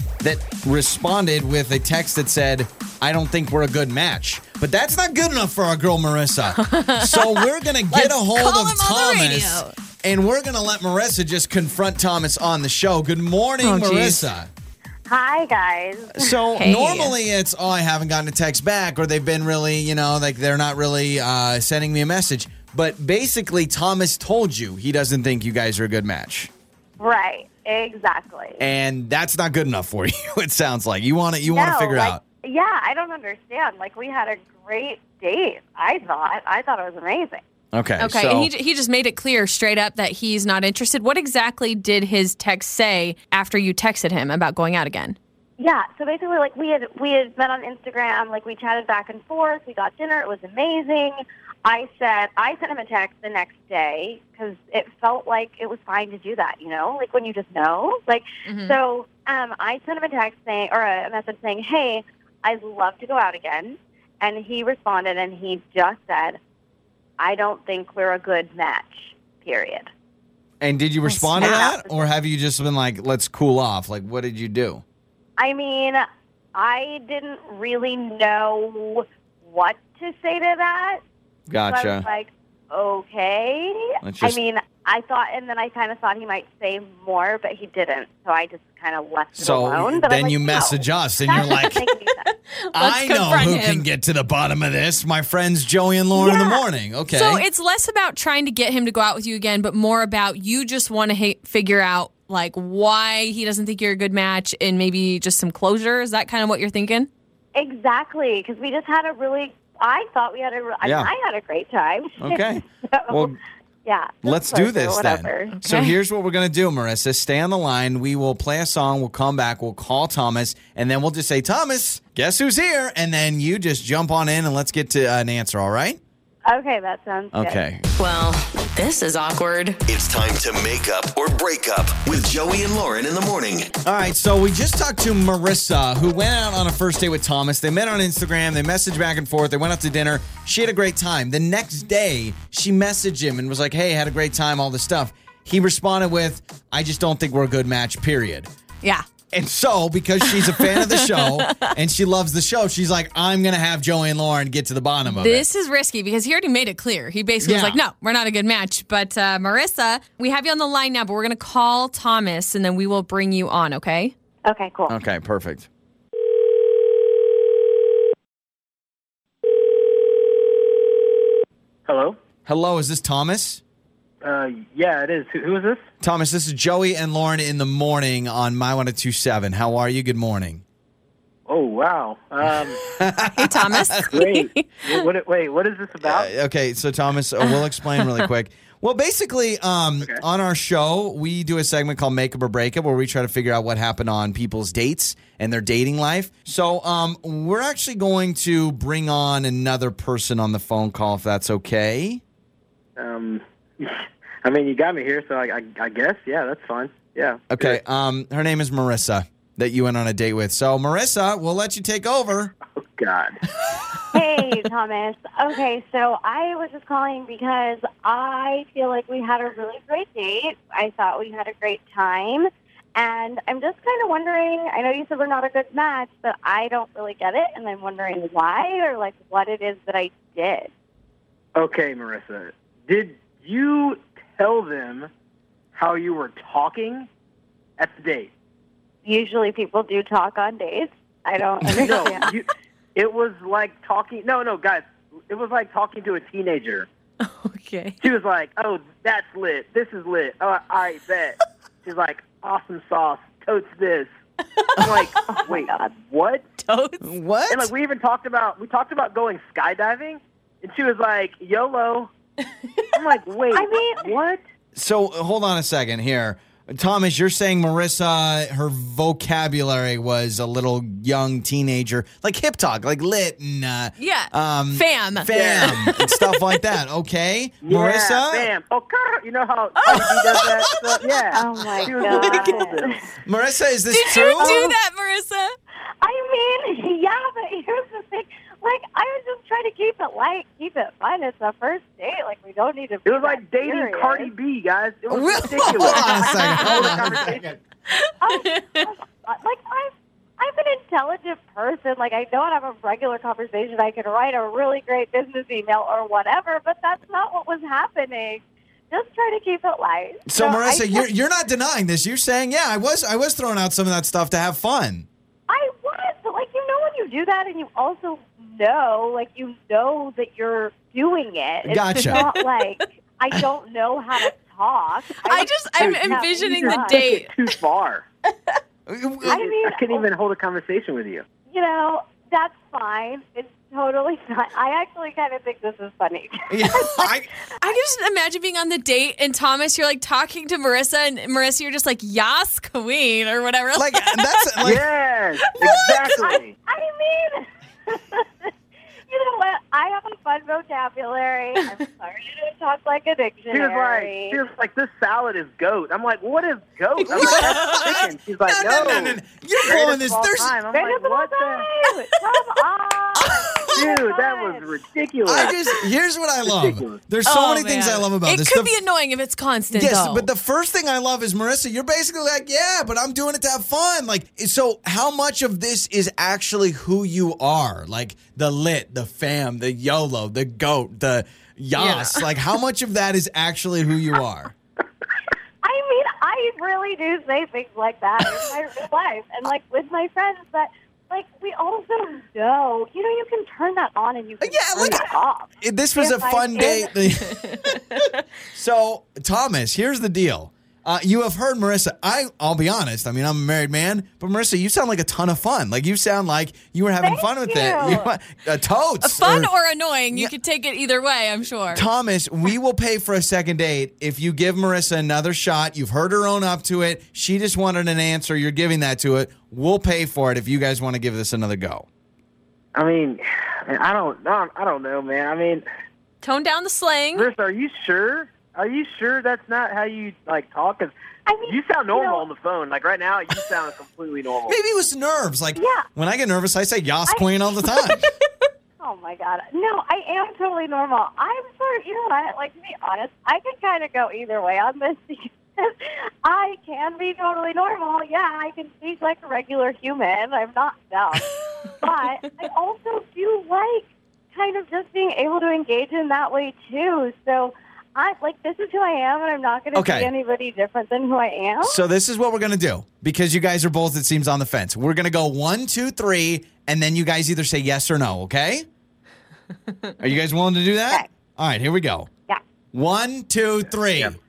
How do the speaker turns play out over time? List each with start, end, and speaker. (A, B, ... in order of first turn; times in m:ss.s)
0:00.2-0:14.5 A
0:06.5-0:09.7 B
0:13.6-0:14.3 B
0:15.1-0:16.4 C
0:16.1-0:26.5 A
0:16.5-0:17.1 B
0:27.0-0:28.6 C
0:28.6-0:32.2 A
0:31.5-0:37.4 C
0:37.7-0:38.5 A
0:38.0-0:45.2 B
0:45.6-1:06.4 C
0:58.4-0:58.8 B
1:07.2-1:09.9 C
1:10.6-1:14.8 A
1:11.0-1:11.7 B
1:11.4-1:12.1 C
1:15.4-1:16.0 C
1:16.5-1:21.0 C
1:21.5-1:22.0 A
1:21.6-1:32.3 C
1:24.0-1:24.4 A
1:29.3-1:31.8 A
1:31.4-1:33.8 B
1:32.7-1:37.4 A
1:36.1-1:47.1 B
1:47.5-1:53.3 C
1:50.8-1:51.1 A
1:52.2-1:53.4 A
1:53.8-1:55.5 C
1:54.2-2:06.0 A
1:55.6-1:56.0 B
2:06.4-2:07.6 C
2:07.3-2:07.8 A
2:08.0-2:09.8 B
2:09.8-2:13.7 D
2:13.8-2:28.5 A
2:29.3-2:35.4 A
2:30.2-2:31.7 B
2:35.0-2:44.1 B
2:37.4-2:37.8 A
2:44.4-2:44.9 C
2:44.9-2:45.7 A
2:51.9-2:52.2 E
2:52.4-2:53.6 A
2:54.2-2:55.8 E
2:56.0-3:00.6 A
3:01.5-3:02.8 E
3:02.9-3:04.2 A
3:03.3-3:05.0 B
3:04.1-3:06.3 E
3:06.0-3:22.2 A
3:07.5-3:08.2 B
3:23.0-3:27.8 E
3:27.5-3:32.5 A
3:32.8-3:33.4 E
3:34.1-3:50.7 C
3:51.6-3:55.1 E
3:55.7-3:57.1 E
3:57.8-3:58.3 E
3:59.0-4:02.3 C
4:01.7-4:06.9 E
4:07.2-4:08.0 B
4:08.0-4:14.1 E
4:14.6-4:15.0 B
4:14.8-4:16.4 E
4:15.2-4:15.9 C
4:16.6-4:17.0 B
4:17.0-4:17.7 A
4:17.5-4:22.1 E
4:22.9-4:24.4 E
4:23.5-4:24.1 C
4:24.7-4:38.5 A
4:34.0-4:36.6 B
4:35.2-4:35.8 E
4:37.6-4:43.0 E
4:39.8-4:40.9 B
4:41.3-4:43.0 C
4:43.2-4:44.6 A
4:43.9-4:45.5 B
4:44.4-4:44.7 C
4:46.0-4:54.3 C
4:53.0-4:57.6 E
4:55.1-4:57.5 A
4:55.9-4:56.9 B
4:57.9-4:58.9 B
4:58.2-5:11.1 C
5:10.3-5:15.0 A
5:15.5-5:27.0 C
5:21.6-5:22.3 A
5:22.0-5:22.7 B
5:25.2-5:27.4 B
5:25.7-5:28.0 E
5:28.9-5:29.5 A
5:29.2-5:31.2 E
5:29.2-5:30.0 C
5:31.4-5:37.1 C
5:36.5-5:37.3 A
5:37.6-5:44.5 B
5:43.8-5:44.8 A
5:44.6-5:46.5 E
5:45.4-5:46.2 B
5:46.1-5:48.5 C
5:49.1-5:54.4 C
5:53.5-6:01.7 E
5:57.0-5:58.0 B
5:57.2-6:00.5 A
6:00.7-6:04.6 C
6:03.2-6:03.8 A
6:03.7-6:05.6 E
6:05.2-6:08.8 A
6:06.4-6:07.0 E
6:07.2-6:10.3 B
6:09.7-6:24.5 A
6:21.7-6:22.2 B
6:25.6-6:37.0 C
6:34.4-6:38.0 A
6:36.6-6:37.7 B
6:38.5-6:49.5 A
6:47.0-6:48.1 C
6:49.0-6:51.8 B
6:51.7-7:01.8 A
7:02.7-7:05.6 E
7:06.2-7:07.3 B
7:07.1-7:14.6 E
7:11.3-7:12.2 C
7:14.5-7:18.1 A
7:15.6-7:15.8 C
7:17.8-7:18.1 B
7:18.8-7:41.8 C
7:31.6-7:31.9 B
7:39.7-7:40.1 A
7:41.6-7:48.6 A
7:50.0-7:52.1 A
7:52.7-7:54.2 A